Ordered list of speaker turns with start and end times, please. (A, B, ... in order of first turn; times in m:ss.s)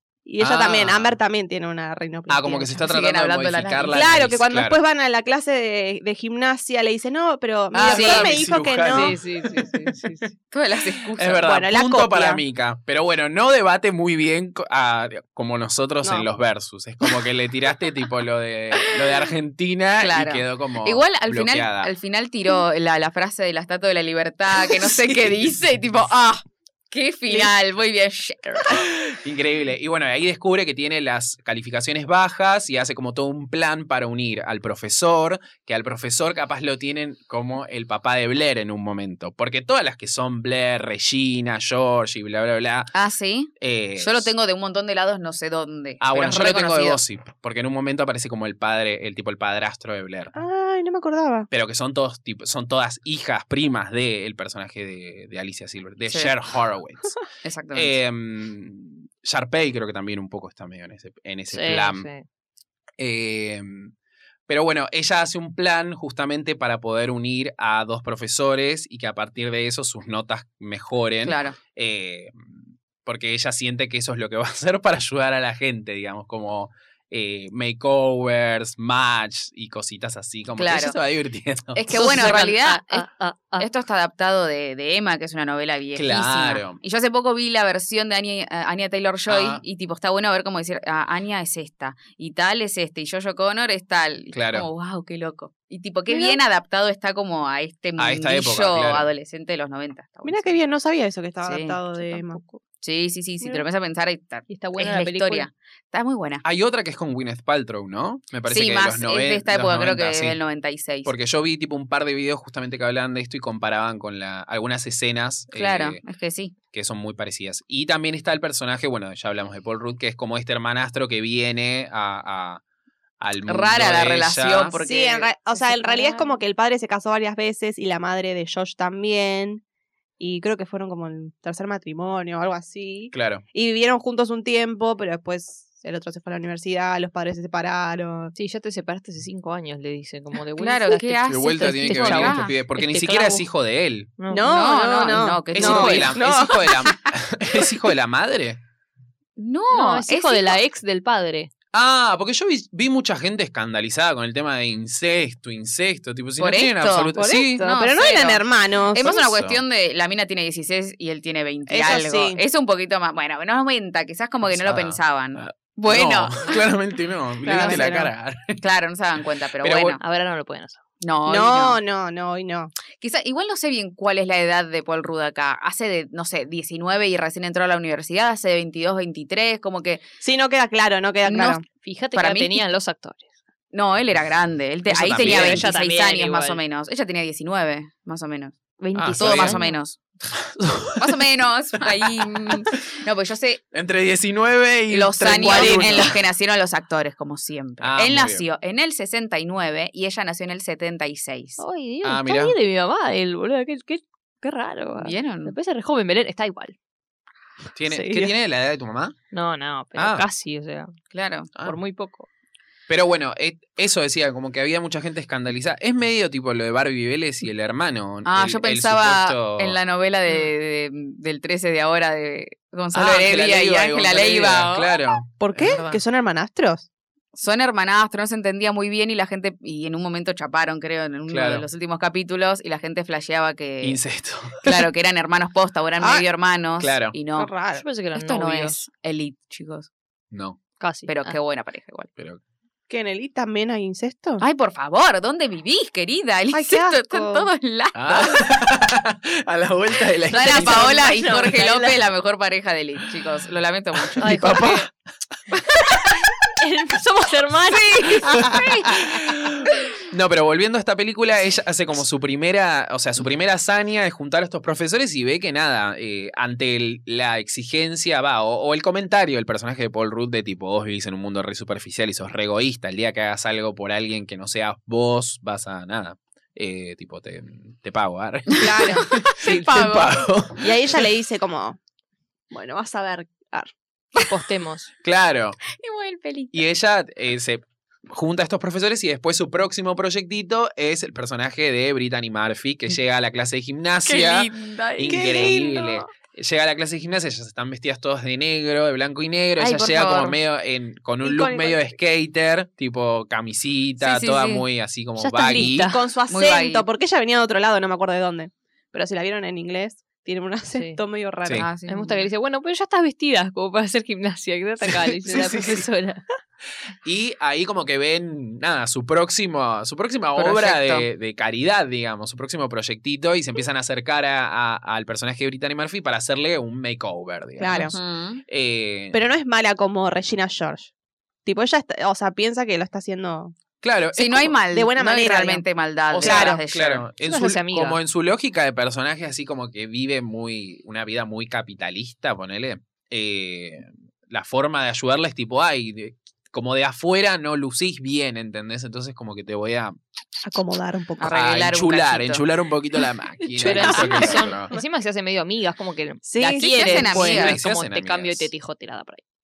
0:00.2-0:02.8 A
0:00.4-0:01.2 B
0:02.3-0:04.8 B
0:02.8-0:04.1 C
0:03.9-0:09.2 A
0:07.7-0:08.4 C
0:07.8-0:10.2 B
0:08.9-0:10.3 D
0:10.5-0:11.5 C
0:11.1-0:21.9 B
0:11.4-0:12.4 A
0:18.8-0:19.3 C
0:20.0-0:28.9 C
0:25.1-0:25.3 B
0:28.7-0:42.9 B
0:42.9-0:47.0 C
0:43.6-0:44.3 B
0:46.0-0:50.3 B
0:50.4-0:51.5 A
0:51.5-0:57.2 B
0:57.4-0:58.0 C
0:57.7-1:02.1 B
1:01.5-1:02.2 D
1:03.0-1:03.9 B
1:04.5-1:22.4 B
1:11.2-1:11.6 C
1:20.6-1:21.0 C
1:21.8-1:23.1 C
1:21.9-1:23.7 D
1:23.6-1:40.6 C
1:26.0-1:26.8 B
1:29.3-1:29.6 B
1:34.3-1:34.7 B
1:36.1-1:36.4 A
1:38.0-1:39.1 B
1:40.2-1:42.4 A
1:41.4-1:41.8 C
1:42.0-1:42.6 D
1:42.8-1:46.4 C
1:44.5-1:45.5 D
1:46.4-1:50.4 B
1:48.5-1:51.1 C
1:51.0-1:56.0 B
1:55.5-1:56.6 C
1:56.7-2:02.6 B
2:03.2-2:04.8 B
2:03.5-2:05.4 C
2:04.8-2:09.6 A
2:05.6-2:06.3 D
2:10.2-2:18.3 A
2:13.1-2:13.4 B
2:18.4-2:23.5 D
2:20.6-2:22.6 C
2:21.3-2:24.1 B
2:24.2-2:24.5 D
2:24.3-2:26.9 A
2:24.4-2:26.4 C
2:25.5-2:28.6 B
2:29.4-2:30.6 C
2:29.7-2:31.5 D
2:31.7-2:37.7 B
2:36.4-2:46.6 C
2:37.2-2:39.2 A
2:39.0-2:39.6 B
2:41.7-2:42.4 A
2:44.5-2:48.6 B
2:47.5-2:48.1 A
2:47.6-2:47.9 C
2:48.6-2:50.0 C
2:49.6-2:50.0 B
2:50.0-2:50.8 D
2:51.0-2:51.8 C
2:51.3-2:52.7 A
2:53.0-3:00.0 C
3:00.2-3:01.6 A
3:01.2-3:01.6 C
3:01.8-3:03.3 D
3:02.1-3:02.6 C
3:03.7-3:10.0 C
3:04.9-3:05.7 B
3:05.1-3:06.6 D
3:09.0-3:09.6 B
3:09.0-3:09.8 D
3:10.3-3:11.2 B
3:11.0-3:13.6 C
3:12.5-3:12.8 B
3:13.7-3:16.2 B
3:14.9-3:21.6 C
3:15.4-3:16.1 D
3:15.4-3:15.8 A
3:17.8-3:18.4 B
3:21.6-3:26.8 D
3:22.0-3:22.6 B
3:25.0-3:25.6 C
3:27.8-3:29.2 B
3:27.9-3:28.3 A
3:29.3-3:30.9 D
3:30.0-3:30.3 B
3:31.1-3:31.5 C
3:31.6-3:32.3 D
3:32.9-3:39.8 B
3:38.2-3:45.0 C
3:42.9-3:45.9 B
3:45.4-3:46.9 A
3:45.6-3:46.0 C
3:47.3-3:54.0 C
3:51.3-3:51.7 B
3:53.8-3:54.9 B
3:54.6-3:57.5 C
3:56.0-3:56.3 A
3:56.8-3:57.2 B
3:57.4-3:57.8 A
3:57.8-3:58.8 D
3:58.1-3:59.9 C
4:00.3-4:00.6 B
4:00.8-4:01.4 D
4:01.1-4:02.1 C
4:02.9-4:04.4 A
4:04.4-4:08.5 C
4:06.5-4:07.5 A
4:08.0-4:11.0 B
4:10.3-4:14.6 C
4:10.4-4:11.9 D
4:10.7-4:11.9 A
4:14.2-4:14.9 B
4:14.2-4:14.9 D
4:16.6-4:18.5 D
4:17.7-4:18.9 C
4:18.2-4:40.7 B
4:38.5-4:40.3 C
4:38.6-4:39.1 A
4:40.6-4:41.8 A
4:42.5-4:43.7 A
4:44.2-4:44.9 D
4:45.0-4:45.6 B
4:45.7-4:46.6 C
4:46.5-5:06.0 B
4:54.0-4:55.5 C
4:55.1-4:56.1 A
4:59.6-5:00.4 C
5:01.2-5:01.9 A
5:04.0-5:04.6 C
5:05.2-5:06.0 D
5:05.5-5:11.7 A
5:06.3-5:06.8 C
5:10.7-5:11.0 D
5:11.4-5:11.7 B
5:11.5-5:12.3 C
5:11.9-5:16.2 D
5:14.8-5:15.9 B
5:17.0-5:28.0 B
5:20.4-5:21.1 C
5:27.6-5:28.0 A
5:27.7-5:28.4 C
5:28.5-5:29.2 B
5:29.1-5:30.9 A
5:31.4-5:33.5 A
5:33.8-5:34.6 B
5:34.2-5:37.1 C
5:34.7-5:35.6 A
5:36.1-5:50.0 B
5:36.2-5:36.6 A
5:37.2-5:38.0 D
5:50.4-5:51.3 A
5:51.2-5:52.4 C
5:51.3-5:54.7 B
5:53.6-5:59.2 D
5:53.6-5:54.8 A
5:56.2-5:57.1 A
5:56.4-5:57.6 C
5:57.0-5:58.5 B